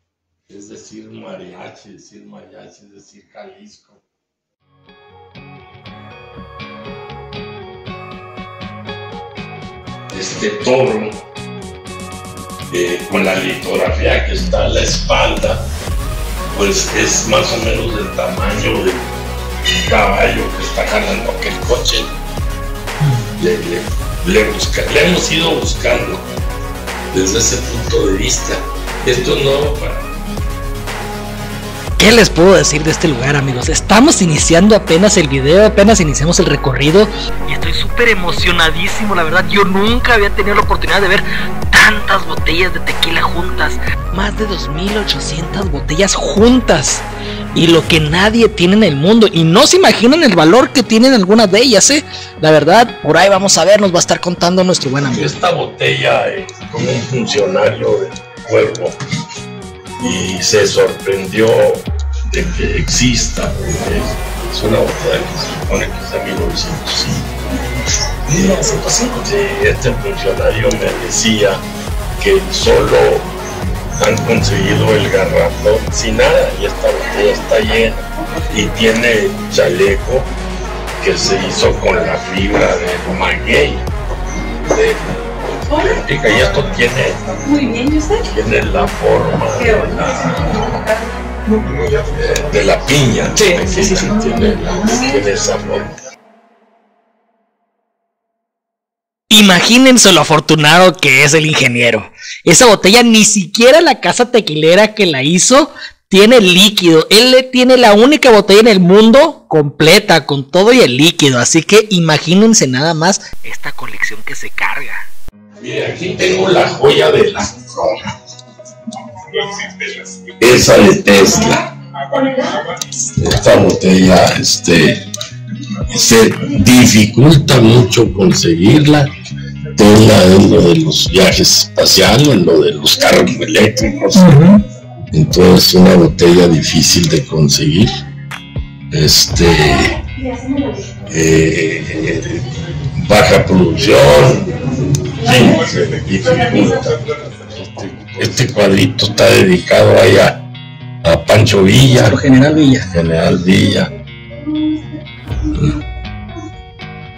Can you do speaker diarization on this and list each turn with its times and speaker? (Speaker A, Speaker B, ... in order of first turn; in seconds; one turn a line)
Speaker A: 0.5-4.0
Speaker A: 10.1-11.2
Speaker A: 12.7-15.7
Speaker A: 16.5-19.1
Speaker A: 19.8-22.1
Speaker B: 23.0-23.3
Speaker A: 23.4-26.2
Speaker A: 27.1-30.1
Speaker B: 32.0-55.3
Speaker A: 55.0-59.0
Speaker A: 60.0-67.5
Speaker B: 68.3-69.2
Speaker A: 68.3-71.6
Speaker A: 72.2-73.3
Speaker A: 74.0-80.3
Speaker B: 78.3-78.9
Speaker A: 81.0-83.9
Speaker A: 84.7-87.4
Speaker C: 85.7-86.6
Speaker C: 87.3-88.3
Speaker A: 88.2-90.8
Speaker C: 89.5-92.1
Speaker A: 92.1-96.0
Speaker B: 93.3-94.2
Speaker C: 94.6-95.1
Speaker B: 99.3-115.0
Speaker A: 115.6-118.1
Speaker A: 119.3-122.5
Speaker A: 123.1-125.0
Speaker A: 125.9-129.1
Speaker A: 129.8-134.5
Speaker B: 134.3-134.5
Speaker A: 135.1-137.9
Speaker A: 138.9-140.0
Speaker A: 141.1-150.4
Speaker A: 151.0-152.2
Speaker B: 151.9-152.9
Speaker A: 152.9-153.9
Speaker A: 155.5-155.8